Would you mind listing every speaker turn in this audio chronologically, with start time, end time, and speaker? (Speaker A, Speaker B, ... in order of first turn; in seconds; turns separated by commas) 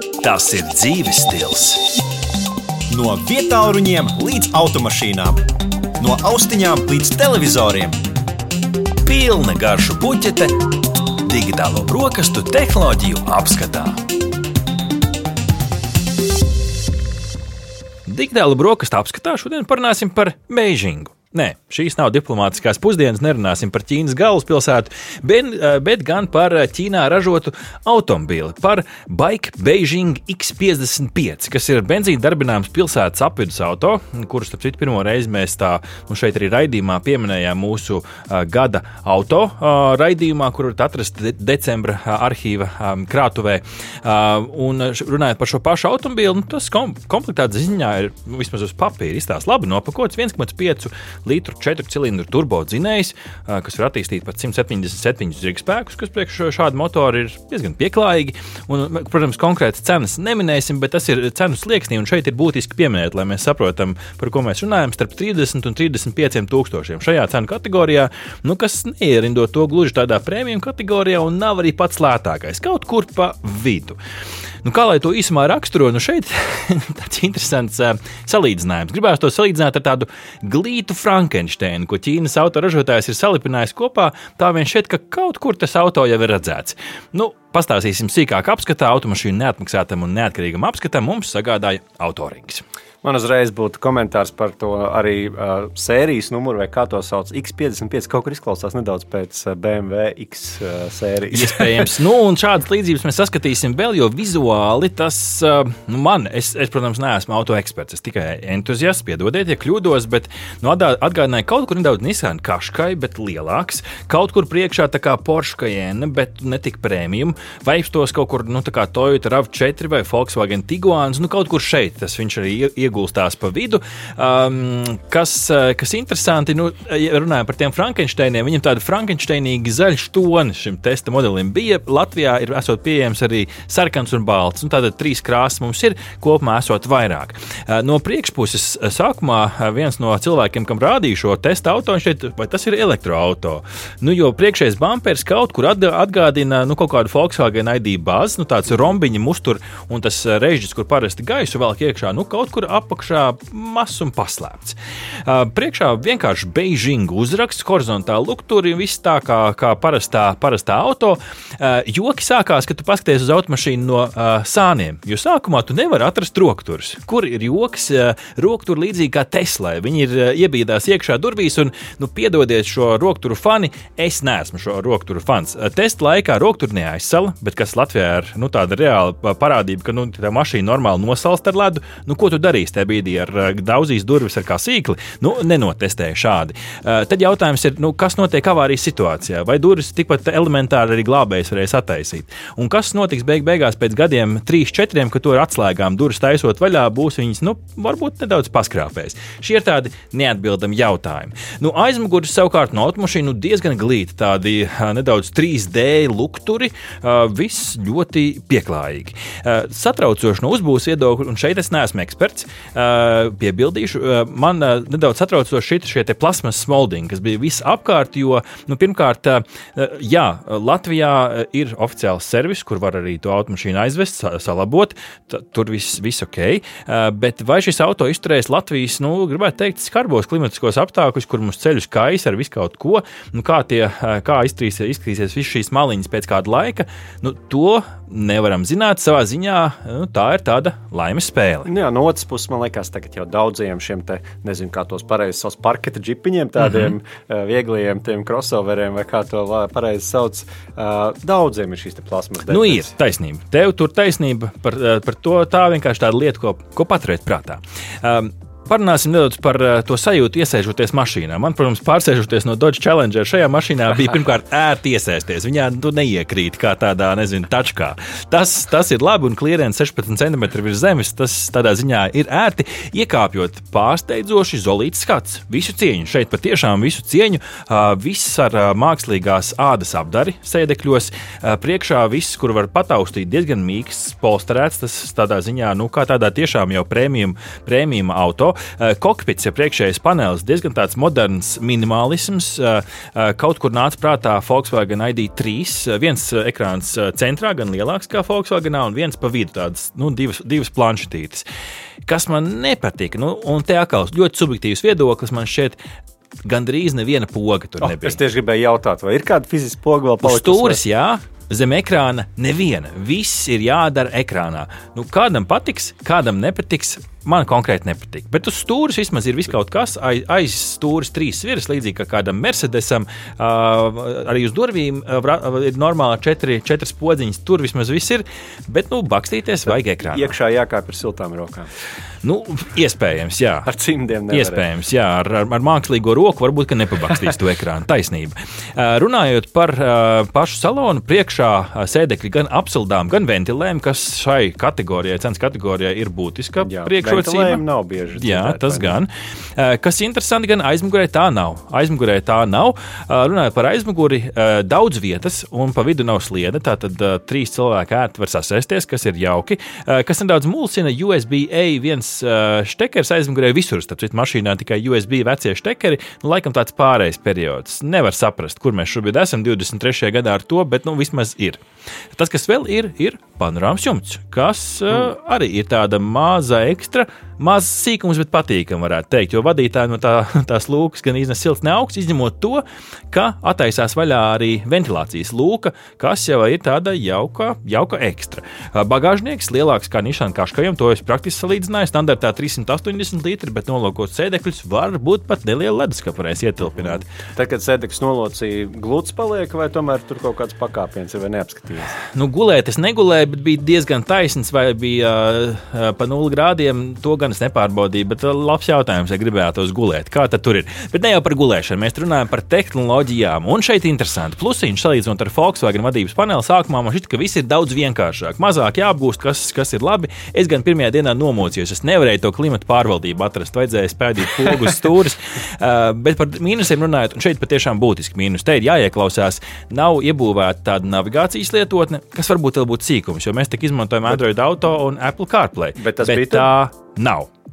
Speaker A: 0.2-1.9, Speaker B: 2.9-5.4, Speaker B: 6.0-8.0, Speaker A: 9.0-10.5, Speaker A: 11.1-14.0, Speaker A: 18.1-74.0, Speaker A: 74.6-92.6, Speaker B: 93.0-101.9, Speaker A: 101.3-241.7, Speaker B: 241.7-252.9, Speaker A: 252.5-301.4, Speaker A: 302.1-305.8, Speaker A: 306.4-308.2, Speaker B: 307.8-310.8, Speaker A: 310.2-330.3, Speaker B: 329.7-331.7, Speaker A: 332.2-333.7, Speaker B: 333.6-334.6, Speaker A: 334.3-347.6, Speaker B: 346.6-349.0, Speaker A: 348.1-371.6, Speaker A: 372.1-397.1, Speaker B: 397.3-401.9, Speaker A: 402.0-437.3, Speaker B: 435.8-436.5